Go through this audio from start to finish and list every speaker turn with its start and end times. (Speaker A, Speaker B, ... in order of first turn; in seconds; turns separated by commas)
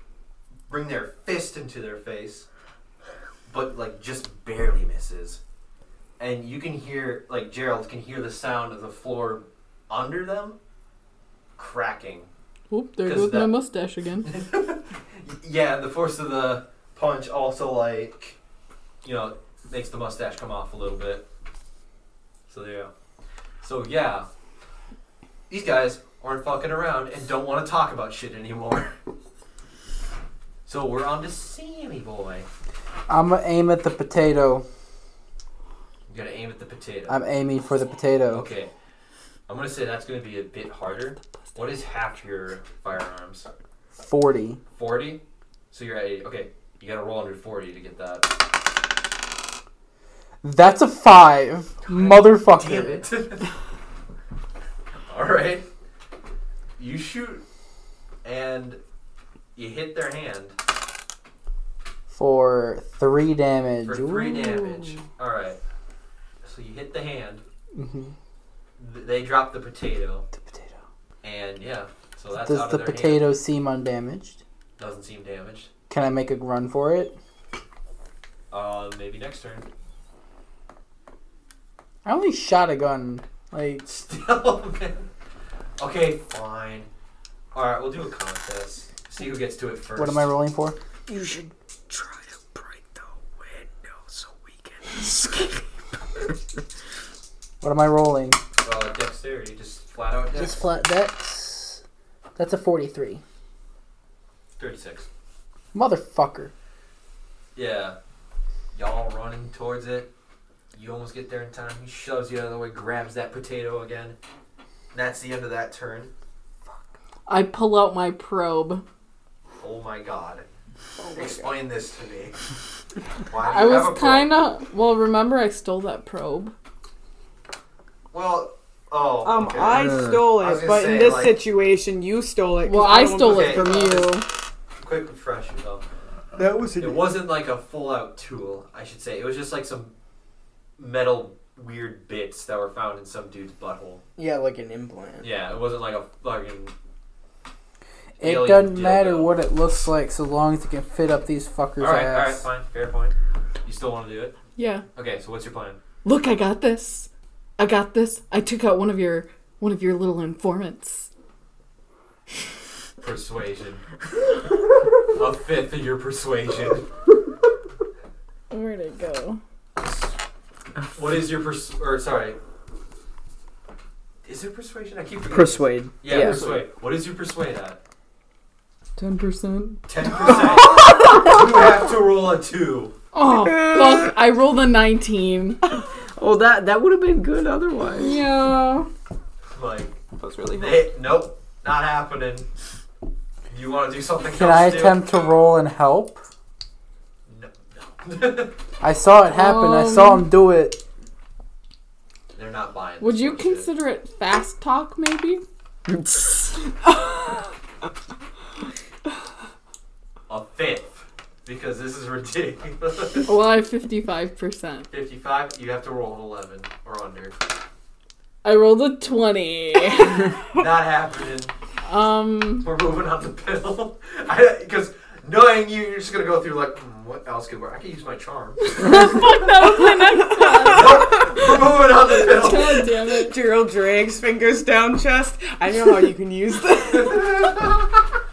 Speaker A: 0.7-2.5, Speaker A: 3.5-5.4, Speaker A: 6.2-10.6, Speaker A: 11.6-12.3, Speaker B: 12.7-14.3, Speaker A: 13.0-13.5, Speaker A: 14.2-18.4, Speaker A: 19.0-21.3, Speaker A: 22.5-22.9, Speaker A: 23.6-24.3, Speaker A: 25.5-28.9, Speaker A: 30.6-32.5, Speaker C: 33.1-34.6, Speaker A: 36.1-37.2, Speaker C: 37.1-38.5, Speaker A: 38.3-38.7, Speaker A: 39.5-43.5, Speaker C: 44.0-44.6, Speaker A: 44.7-48.3, Speaker C: 50.4-53.0, Speaker A: 51.9-53.4, Speaker A: 55.1-55.6, Speaker A: 56.8-57.4, Speaker A: 58.2-58.8, Speaker A: 59.5-60.5, Speaker C: 62.1-64.6, Speaker A: 63.8-65.6, Speaker A: 66.4-67.4, Speaker C: 67.7-68.1, Speaker A: 68.8-70.3, Speaker C: 70.3-70.8, Speaker A: 71.2-73.3, Speaker C: 72.3-74.4, Speaker A: 74.8-75.7, Speaker C: 75.9-77.2, Speaker A: 78.5-79.7, Speaker C: 82.0-83.8, Speaker A: 83.8-85.1, Speaker A: 85.8-86.9, Speaker A: 87.5-90.3, Speaker C: 90.0-90.8, Speaker D: 91.1-95.6, Speaker C: 97.6-98.4, Speaker A: 98.6-100.6, Speaker C: 100.3-101.8, Speaker C: 102.3-103.2, Speaker A: 104.6-105.1, Speaker C: 105.7-106.5, Speaker A: 107.5-108.0, Speaker A: 108.7-110.1, Speaker A: 110.7-114.2, Speaker A: 114.9-116.1, Speaker B: 117.3-118.8, Speaker A: 119.6-120.5, Speaker E: 121.0-121.5, Speaker A: 121.1-122.4, Speaker A: 123.3-124.4, Speaker B: 123.4-126.5, Speaker A: 128.1-131.4, Speaker E: 129.2-134.1, Speaker D: 129.7-130.3, Speaker B: 132.6-134.3, Speaker A: 133.2-133.9, Speaker A: 134.8-135.8, Speaker D: 136.3-137.1, Speaker A: 136.8-139.9, Speaker A: 140.8-144.0, Speaker D: 144.2-145.3, Speaker A: 145.2-146.7, Speaker A: 148.2-149.9, Speaker C: 148.2-152.5, Speaker A: 151.8-154.3, Speaker B: 154.6-154.8, Speaker A: 154.9-155.8, Speaker B: 156.1-161.1, Speaker A: 163.0-163.8, Speaker A: 165.1-166.9, Speaker B: 168.5-169.4, Speaker A: 170.9-172.4, Speaker A: 174.2-177.8, Speaker D: 175.2-176.6, Speaker B: 179.0-179.8, Speaker A: 179.9-182.9, Speaker B: 183.1-185.6, Speaker D: 183.5-184.1, Speaker D: 186.2-188.2, Speaker B: 187.9-188.9, Speaker A: 189.5-190.0, Speaker E: 190.2-190.9, Speaker A: 190.5-192.5, Speaker A: 193.5-195.0, Speaker C: 194.2-196.2, Speaker A: 197.3-198.6, Speaker C: 198.8-200.8, Speaker B: 199.3-200.3, Speaker A: 202.3-203.7, Speaker B: 203.0-205.4, Speaker D: 205.9-206.6, Speaker A: 210.3-213.5, Speaker B: 213.3-214.9, Speaker A: 214.9-217.3, Speaker B: 218.4-220.4, Speaker A: 220.5-221.5, Speaker B: 221.8-222.7, Speaker A: 222.6-229.2, Speaker B: 228.6-231.4, Speaker E: 229.9-231.0, Speaker A: 230.6-232.9, Speaker B: 232.1-233.3, Speaker E: 233.0-237.5, Speaker A: 237.0-237.8